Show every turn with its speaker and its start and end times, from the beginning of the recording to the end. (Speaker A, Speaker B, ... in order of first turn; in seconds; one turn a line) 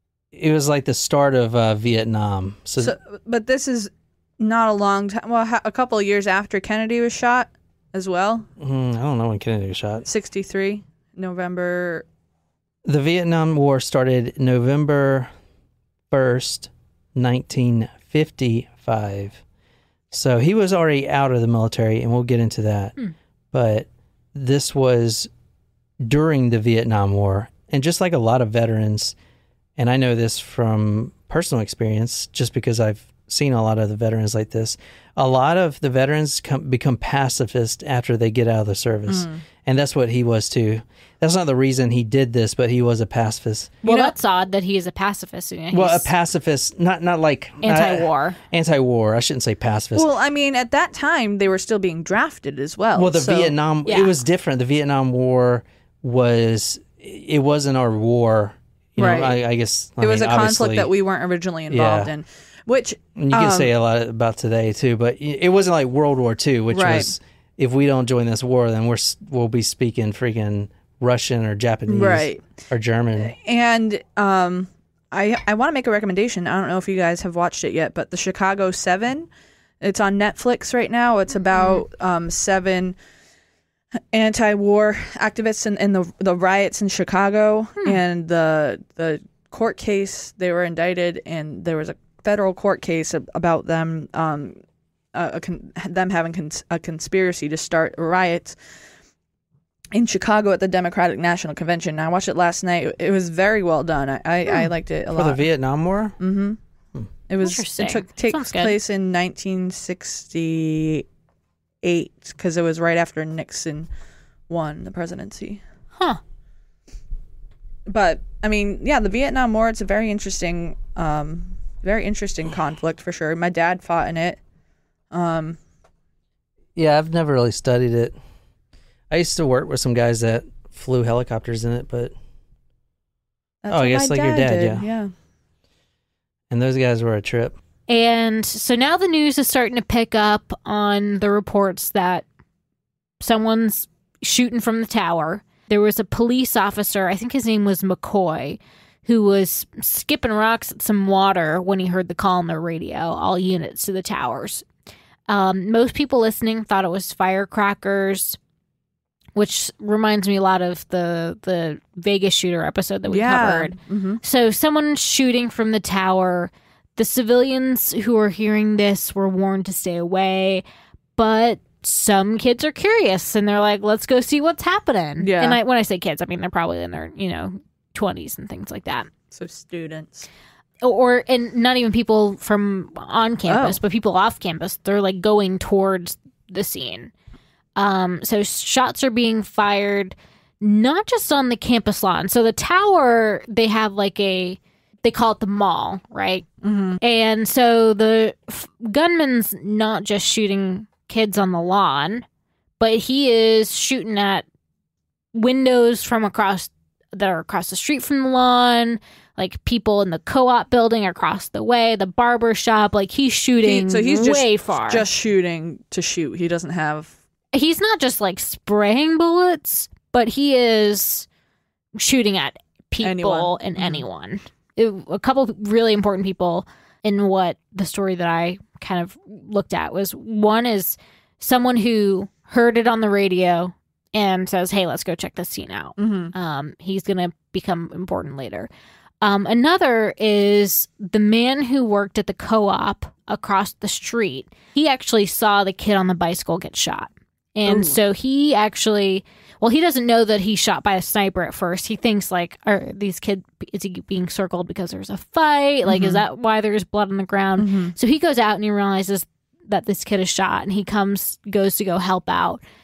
Speaker A: 0.3-2.9
Speaker B: 2.8-8.4
Speaker A: 8.6-10.1
Speaker B: 10.1-12.0
Speaker A: 12.8-15.3
Speaker A: 16.1-19.4
Speaker A: 20.1-23.0
Speaker A: 23.5-25.3
Speaker A: 26.0-29.1
Speaker A: 29.8-43.8
Speaker B: 39.1-39.4
Speaker B: 43.8-44.1
Speaker C: 43.8-46.1
Speaker A: 45.7-50.1
Speaker C: 47.6-48.4
Speaker B: 49.9-53.5
Speaker A: 52.9-60.9
Speaker C: 53.9-54.1
Speaker B: 59.0-59.4
Speaker B: 60.0-63.7
Speaker A: 61.7-62.1
Speaker A: 63.1-73.3
Speaker B: 66.7-67.1
Speaker B: 71.9-72.4
Speaker B: 73.3-79.3
Speaker B: 79.8-83.0
Speaker C: 81.5-81.8
Speaker B: 84.1-94.6
Speaker B: 95.1-98.6
Speaker B: 99.9-105.4
Speaker A: 105.1-106.2
Speaker B: 106.2-106.6
Speaker B: 107.3-111.0
Speaker C: 107.4-108.8
Speaker B: 111.8-113.9
Speaker B: 114.5-115.6
Speaker B: 117.8-124.4
Speaker B: 125.1-125.6
Speaker A: 126.8-128.1
Speaker A: 129.1-132.1
Speaker B: 133.6-135.1
Speaker A: 133.7-134.8
Speaker A: 136.5-137.6
Speaker C: 137.9-142.2
Speaker C: 143.2-154.7
Speaker C: 155.3-158.4
Speaker C: 159.3-170.6
Speaker B: 163.1-164.2
Speaker C: 171.2-179.1
Speaker B: 175.2-175.6
Speaker B: 179.3-180.3
Speaker C: 180.8-187.1
Speaker B: 183.5-183.8
Speaker C: 187.8-196.4
Speaker B: 196.6-197.0
Speaker C: 197.0-202.2
Speaker C: 202.8-204.4
Speaker C: 205.3-215.1
Speaker B: 213.6-217.1
Speaker C: 217.5-221.3
Speaker C: 222.0-238.7
Speaker B: 223.0-224.0
Speaker B: 236.0-236.3
Speaker C: 239.2-262.6
Speaker B: 247.7-247.9
Speaker B: 255.8-256.2
Speaker B: 257.6-257.9